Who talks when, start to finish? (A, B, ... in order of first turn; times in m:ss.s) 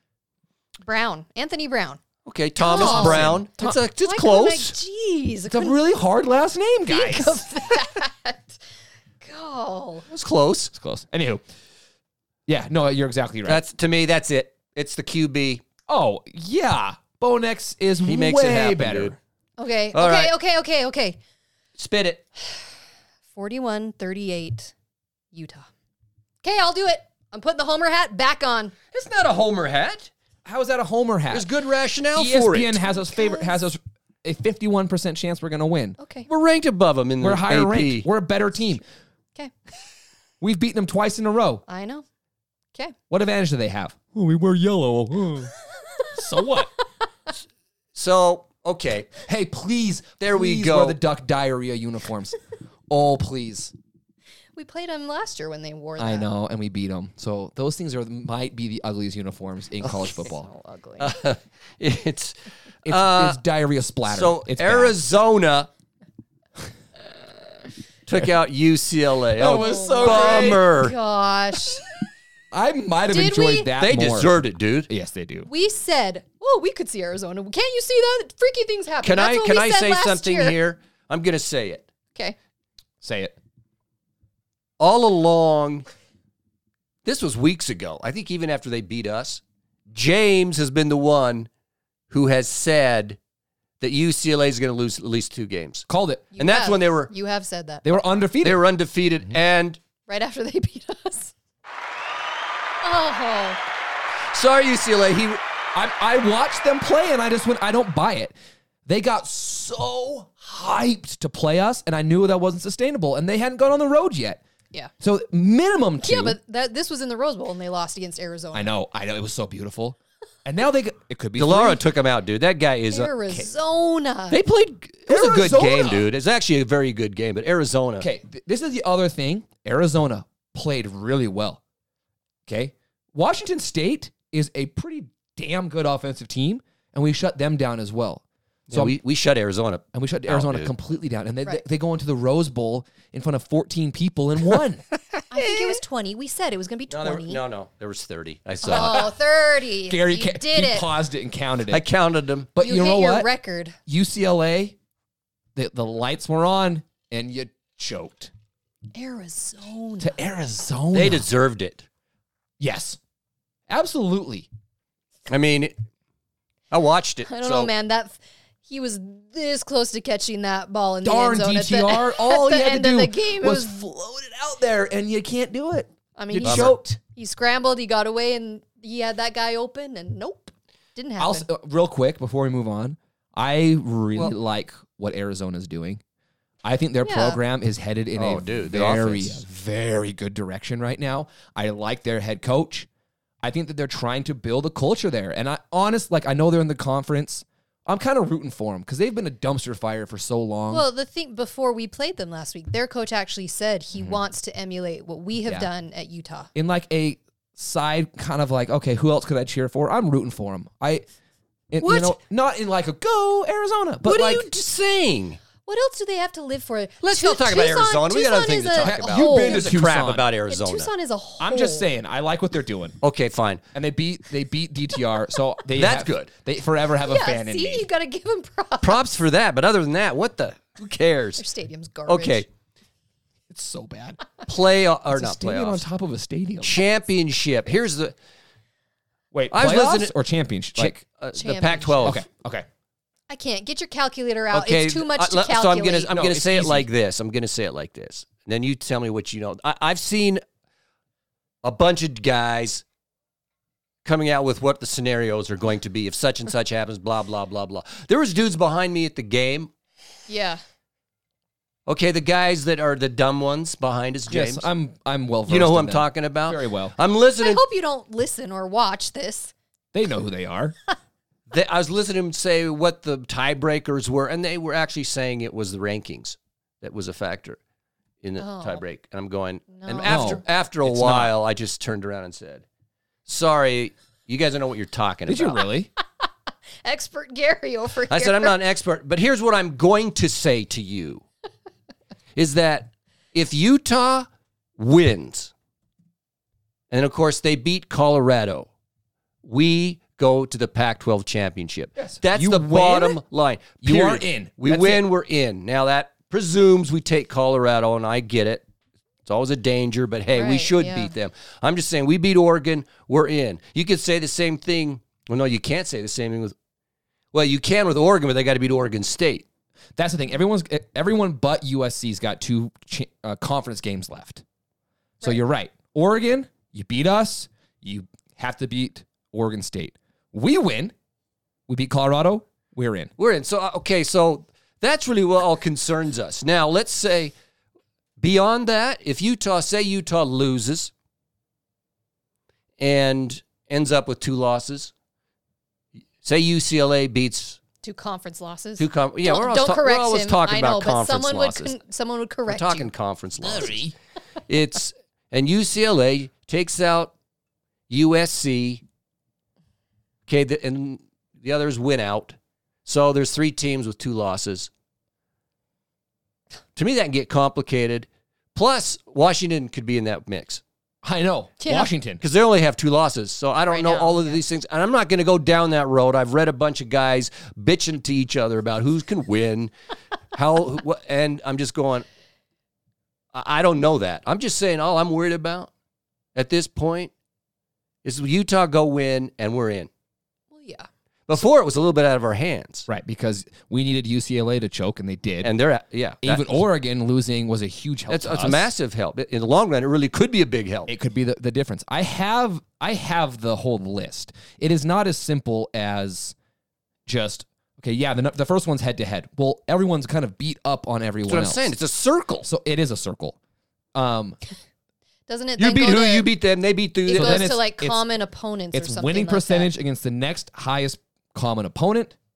0:00.8-0:02.0 A
0:02.2-0:04.7 B
0:02.6-0:03.4 A
0:02.7-0:03.8 C
0:04.0-0:05.8 A
0:05.5-0:07.5 C
0:06.9-0:08.6 A
0:09.2-0:10.0 A
0:10.1-0:10.7 B
0:10.7-0:11.4 C
0:12.5-0:13.6 C
0:13.4-0:15.6 B
0:15.9-0:19.2 C
0:18.0-0:19.1 B
0:19.6-0:21.2 A
0:19.9-0:20.3 B
0:21.8-0:22.2 B
0:23.3-0:24.7 A
0:25.3-0:25.7 A
0:26.4-0:28.7 A
0:28.9-0:30.1 B
0:30.4-0:31.5 C
0:31.3-0:32.8 B
0:32.1-0:36.0 C
0:33.1-0:33.6 A
0:36.0-0:36.3 A
0:36.3-0:38.1 B
0:37.2-0:38.8 C
0:40.4-0:41.6 C
0:41.7-0:42.0 A
0:43.1-0:45.5 C
0:46.1-0:46.7 C
0:47.9-0:49.2 B
0:49.2-0:52.4 C
0:50.2-0:51.0 B
0:52.9-0:53.7 C
0:54.5-0:56.3 A
0:56.0-1:00.5 C
1:00.1-1:01.2 A
1:01.0-1:03.4 B
1:02.8-1:05.0 C
1:04.0-1:05.7 B
1:08.0-1:11.0 B
1:09.4-1:10.6 C
1:09.4-1:11.8 A
1:12.5-1:15.5 C
1:13.1-1:13.7 A
1:13.8-1:14.9 B
1:15.4-1:20.6 A
1:19.0-1:21.8 B
1:23.0-1:23.3 C
1:24.8-1:25.8 B
1:27.0-1:31.5 B
1:32.1-1:33.2 B
1:33.8-1:35.8 B
1:35.9-1:36.3 C
1:36.3-1:37.8 A
1:36.4-1:37.1 B
1:37.8-1:38.6 C
1:38.4-1:39.8 B
1:40.1-1:41.3 A
1:42.8-1:43.6 A
1:44.3-1:45.4 B
1:45.7-1:48.3 C
1:48.8-1:54.4 C
1:55.0-1:56.4 C
1:56.0-1:58.7 A
1:58.5-2:01.8 C
2:01.4-2:03.1 B
2:02.9-2:04.4 A
2:04.3-2:08.1 B
2:05.1-2:06.1 C
2:08.0-2:11.6 C
2:12.5-2:18.9 C
2:18.7-2:20.7 B
2:19.9-2:24.8 C
2:25.3-2:27.4 A
2:26.9-2:29.1 B
2:28.6-2:30.9 A
2:29.9-2:31.8 C
2:31.7-2:32.5 B
2:32.5-2:33.3 C
2:32.6-2:33.8 A
2:33.9-2:34.8 C
2:35.5-2:38.3 C
2:38.9-2:40.2 A
2:40.0-2:41.3 C
2:40.9-2:41.8 B
2:42.6-2:43.0 C
2:43.7-2:44.5 C
2:45.3-2:45.7 B
2:46.7-2:47.7 B
2:47.3-2:53.8 A
2:51.0-2:56.8 C
2:56.2-3:01.5 A
2:56.4-2:56.7 B
3:01.2-3:06.0 C
3:06.6-3:12.9 C
3:07.0-3:07.4 A
3:08.2-3:09.4 B
3:13.4-3:20.8 C
3:20.7-3:26.5 A
3:26.5-3:31.0 C
3:31.7-3:34.5 C
3:31.8-3:32.2 B
3:34.0-3:35.4 B
3:35.6-3:39.8 A
3:37.0-3:40.9 B
3:38.8-3:40.2 C
3:40.5-3:41.9 A
3:41.4-3:43.0 C
3:43.0-3:43.6 B
3:43.7-3:47.9 C
3:45.7-3:46.3 B
3:47.0-3:49.0 A
3:48.8-3:51.4 B
3:51.4-3:52.4 A
3:52.0-3:52.4 B
3:53.5-3:54.2 C
3:54.4-3:55.8 B
3:55.1-3:56.8 C
3:56.6-3:58.1 B
3:59.3-4:01.0 C
3:59.5-4:00.1 B
4:00.8-4:02.2 B
4:01.4-4:02.2 A
4:02.0-4:02.6 C
4:03.3-4:06.2 A
4:04.5-4:10.4 B
4:06.1-4:06.9 C
4:11.6-4:12.8 B
4:14.0-4:19.7 B
4:20.3-4:20.6 A
4:21.8-4:24.6 B
4:24.3-4:26.9 C
4:25.5-4:27.6 B
4:27.4-4:29.5 A
4:29.9-4:30.8 C
4:31.5-4:37.6 B
4:38.2-4:42.6 B
4:38.4-4:38.8 A
4:39.7-4:40.4 A
4:40.0-4:41.3 C
4:43.2-4:45.6 B
4:45.3-4:45.9 C
4:46.8-4:48.6 A
4:48.1-4:51.2 B
4:52.4-4:54.3 B
4:54.8-4:55.5 B
4:56.9-4:58.7 B
4:59.4-5:08.6 B
5:02.0-5:03.2 C
5:03.8-5:05.0 C
5:09.2-5:16.5 B
5:10.3-5:11.1 A
5:17.3-5:19.4 B
5:20.0-5:24.4 C
5:25.2-5:30.9 C
5:31.7-5:33.1 C
5:33.2-5:37.3 B
5:38.2-5:40.9 B
5:42.8-5:44.9 B
5:46.2-5:47.6 B
5:47.8-5:52.9 A
5:48.8-5:51.7 B
5:52.5-5:53.8 B
5:53.4-5:53.9 C
5:54.5-5:57.1 B
5:57.9-5:58.8 B
6:00.3-6:04.7 B
6:06.8-6:10.6 B
6:11.0-6:12.2 C
6:11.6-6:11.9 A
6:12.2-6:19.7 B
6:13.7-6:14.4 A
6:20.3-6:22.0 B
6:23.3-6:25.7 B
6:26.3-6:27.1 B
6:28.0-6:29.9 B
6:30.5-6:30.9 A
6:31.3-6:32.9 B
6:32.9-6:35.5 C
6:35.4-6:36.6 B
6:36.2-6:38.7 C
6:38.1-6:40.9 B
6:40.9-6:46.3 C
6:47.1-6:51.7 C
6:51.3-6:52.5 B
6:52.4-6:53.4 C
6:53.9-6:54.4 C
6:55.3-6:56.3 A
6:55.6-6:57.5 B
6:57.0-6:59.7 A
6:57.1-6:58.0 C
6:58.7-7:02.1 C